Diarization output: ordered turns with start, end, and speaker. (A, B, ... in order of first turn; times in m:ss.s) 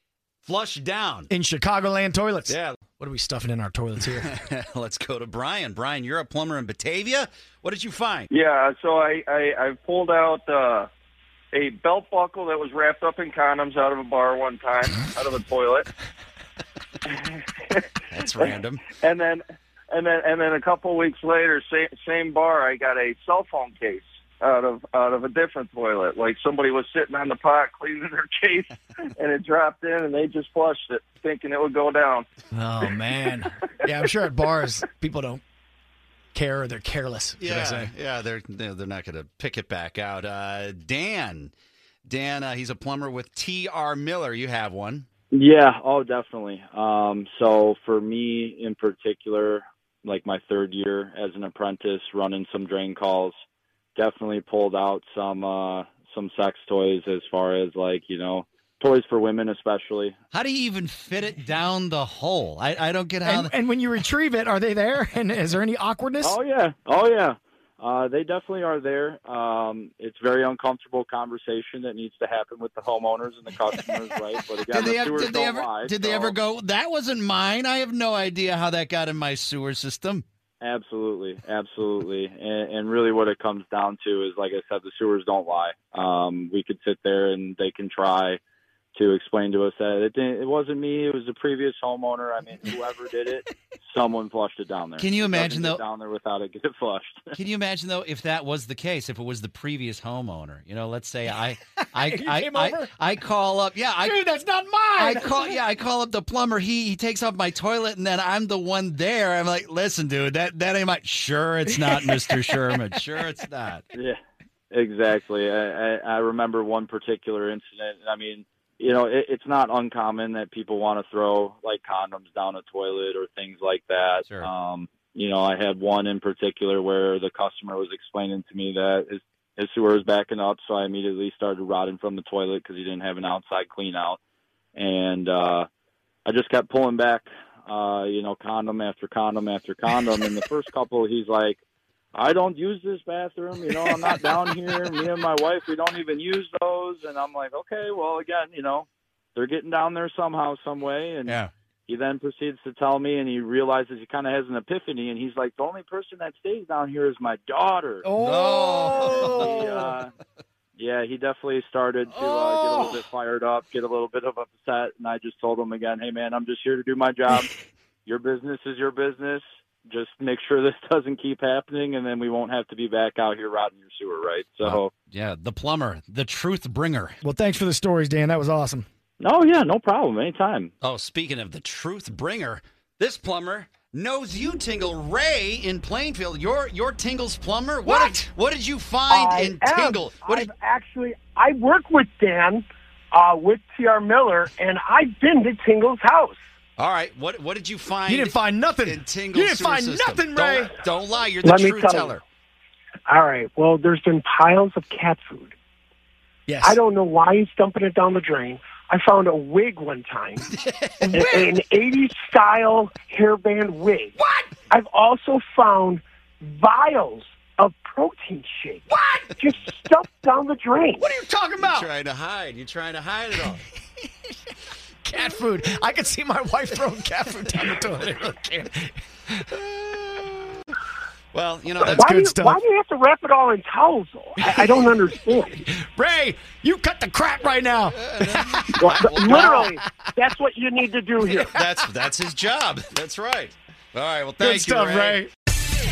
0:00.4-0:01.3 A
0:01.3-0:04.3 B
0:02.5-0:02.8 A
0:04.1-0:08.3 A
0:08.3-0:10.9 C
0:11.5-0:15.9 C
0:17.1-0:17.8 C
0:18.1-0:18.9 A
0:18.9-0:32.2 C
0:32.5-0:35.4 B
0:36.3-0:37.9 B
0:37.4-0:41.5 A
0:42.0-0:45.1 A
0:45.3-0:53.4 D
0:54.0-1:00.2 D
1:00.3-1:03.5 A
1:03.2-1:06.4 B
1:06.2-1:16.3 D
1:14.7-1:20.2 A
1:20.6-1:28.4 D
1:28.9-1:37.2 D
1:35.0-1:35.8 A
1:37.3-1:44.2 A
1:41.8-1:42.9 B
1:44.0-1:45.6 B
1:45.0-1:53.9 A
1:54.7-2:14.2 D
2:04.2-2:04.5 A
2:14.7-2:15.7 D
2:16.2-2:21.6 D
2:22.1-2:38.0 D
2:31.2-2:31.5 A
2:38.0-2:40.0 B
2:38.2-2:39.5 A
2:39.5-2:40.1 D
2:40.8-2:47.5 D
2:42.1-2:43.0 B
2:48.0-2:54.9 D
2:54.6-2:57.2 A
2:57.2-2:58.8 B
2:59.2-3:00.7 D
3:00.8-3:10.5 A
3:09.1-3:16.4 E
3:16.8-3:22.2 A
3:18.0-3:20.7 B
3:21.4-3:22.2 E
3:23.1-3:25.5 E
3:26.5-3:26.8 B
3:26.6-3:30.5 E
3:30.6-3:31.2 A
3:31.0-3:34.1 E
3:31.1-3:31.5 B
3:34.2-3:34.5 B
3:34.7-3:41.1 E
3:38.9-3:39.3 B
3:41.0-3:41.9 B
3:41.6-3:43.7 A
3:45.0-3:49.3 B
3:49.7-3:50.2 A
3:51.3-3:52.1 A
3:51.8-3:52.6 B
3:51.9-3:55.6 E
3:54.4-3:54.9 B
3:55.5-3:59.7 B
3:58.0-4:00.0 A
3:58.8-4:01.5 E
4:01.2-4:01.8 B
4:01.4-4:05.2 A
4:04.4-4:05.3 B